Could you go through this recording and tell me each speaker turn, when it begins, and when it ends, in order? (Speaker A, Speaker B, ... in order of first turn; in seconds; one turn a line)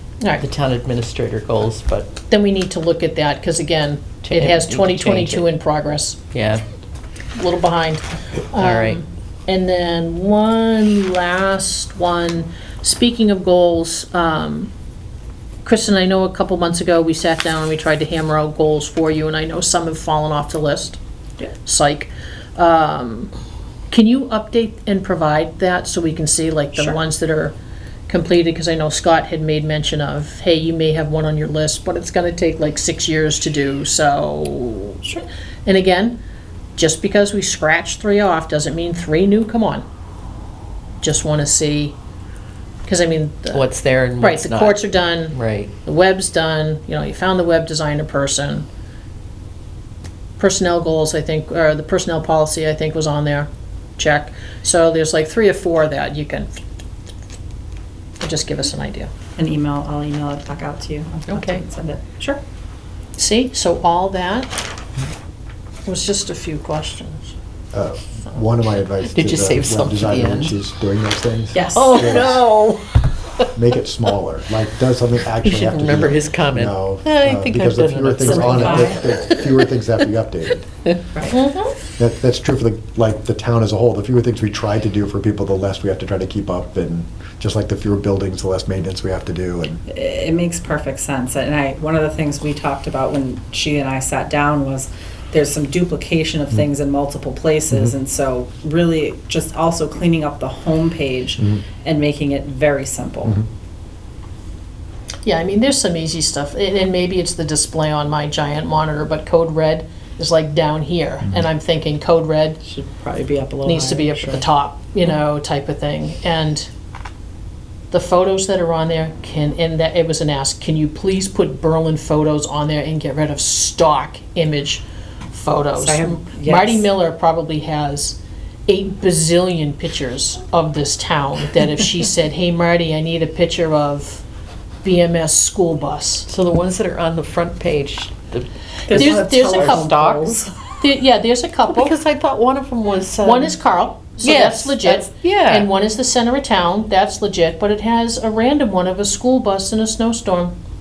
Speaker A: 0.4-2.2
Speaker B: 2.3-6.2
Speaker A: 4.2-5.4
Speaker A: 6.3-6.6
Speaker B: 7.3-14.7
Speaker A: 8.6-9.0
Speaker B: 15.6-21.0
Speaker B: 21.6-23.3
Speaker B: 23.9-27.6
Speaker B: 28.1-36.2
Speaker B: 36.8-39.8
Speaker B: 41.0-42.0
Speaker B: 42.9-43.6
Speaker A: 43.5-45.7
Speaker B: 44.2-48.7
Speaker B: 50.4-56.6
Speaker B: 58.2-59.1
Speaker C: 59.3-62.4
Speaker A: 61.3-61.6
Speaker B: 63.1-64.6
Speaker B: 65.8-67.3
Speaker D: 67.7-72.4
Speaker A: 69.1-70.5
Speaker C: 71.5-72.2
Speaker A: 71.7-73.0
Speaker D: 73.5-80.7
Speaker A: 75.4-79.4
Speaker C: 78.2-79.0
Speaker C: 81.1-81.4
Speaker B: 81.4-81.7
Speaker D: 82.0-89.8
Speaker C: 89.9-103.4
Speaker B: 105.2-112.6
Speaker C: 112.6-114.5
Speaker B: 113.6-116.7
Speaker B: 117.9-134.2
Speaker C: 125.8-126.9
Speaker B: 134.8-136.3
Speaker A: 136.3-140.3
Speaker C: 138.8-140.6
Speaker B: 138.9-139.6
Speaker B: 140.8-141.9
Speaker A: 141.7-143.6
Speaker B: 143.2-150.6
Speaker A: 144.2-145.7